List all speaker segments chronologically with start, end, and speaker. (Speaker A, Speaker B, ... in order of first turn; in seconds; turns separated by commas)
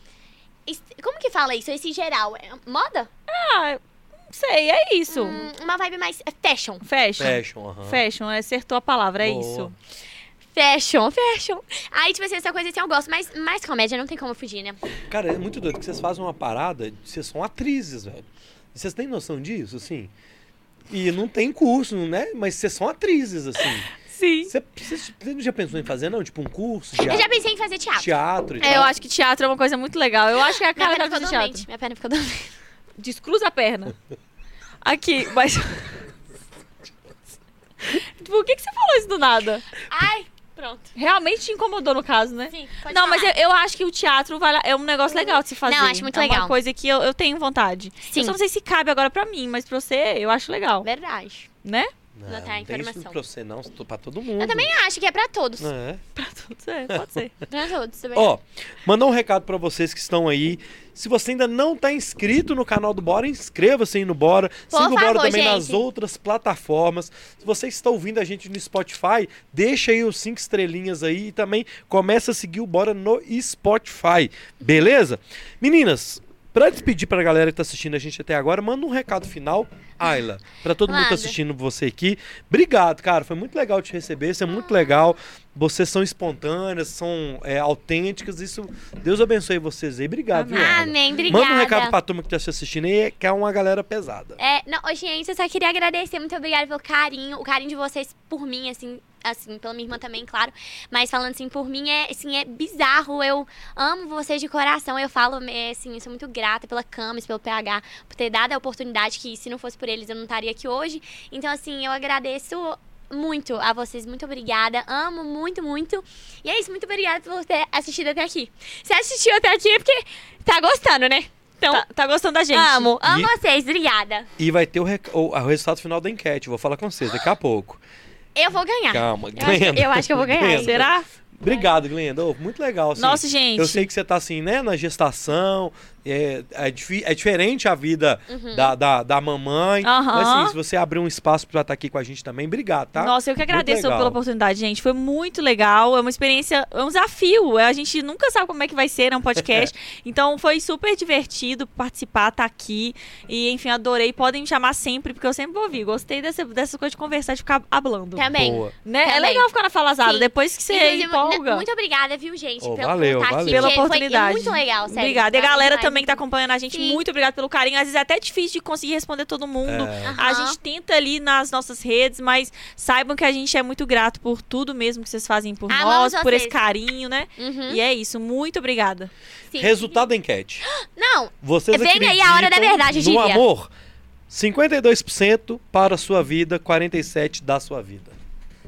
Speaker A: 0.7-3.1, Speaker B: 3.3-5.4, Speaker A: 5.1-6.8, Speaker B: 6.8-9.7, Speaker C: 7.2-8.0, Speaker C: 9.2-9.7, Speaker A: 10.5-14.8, Speaker C: 15.1-20.1, Speaker C: 20.9-23.9, Speaker B: 24.0-24.5, Speaker C: 24.5-27.3, Speaker A: 27.1-28.1, Speaker C: 27.9-28.9, Speaker B: 28.6-31.6, Speaker A: 30.8-32.5, Speaker B: 33.0-33.9, Speaker B: 34.8-36.0, Speaker B: 37.8-39.6, Speaker A: 39.9-40.9, Speaker B: 41.0-50.9, Speaker A: 42.5-43.3, Speaker A: 45.1-46.5, Speaker A: 48.0-48.4, Speaker A: 50.8-51.5, Speaker B: 51.6-51.9, Speaker C: 52.1-54.7, Speaker A: 52.3-53.2, Speaker A: 54.4-55.7, Speaker C: 55.6-56.0, Speaker B: 56.1-57.4, Speaker C: 56.9-57.2, Speaker A: 57.5-58.3, Speaker C: 58.1-94.4, Speaker A: 64.7-65.8, Speaker A: 80.8-81.4, Speaker A: 84.5-85.0, Speaker B: 90.3-91.4, Speaker A: 90.5-91.9, Speaker A: 94.4-121.8, Speaker B: 121.7-123.0, Speaker A: 122.5-124.3, Speaker C: 123.0-123.3, Speaker C: 124.4-127.8, Speaker A: 128.3-130.9, Speaker C: 128.9-144.2, Speaker B: 130.5-131.1, Speaker A: 131.5-131.8, Speaker B: 133.0-133.8, Speaker A: 138.3-138.7, Speaker B: 139.8-140.6, Speaker B: 142.9-158.3, Speaker C: 149.4-149.7, Speaker A: 158.1-159.5, Speaker C: 158.3-158.7, Speaker B: 158.8-161.6, Speaker A: 160.0-166.2, Speaker C: 162.6-163.7, Speaker B: 163.4-179.1, Speaker A: 166.7-167.0, Speaker C: 169.6-170.2, Speaker A: 170.0-170.6, Speaker A: 175.7-176.6, Speaker A: 177.4-177.8, Speaker A: 179.5-180.0, Speaker C: 179.6-180.6, Speaker A: 180.6-183.4, Speaker C: 181.4-183.7, Speaker C: 184.3-188.2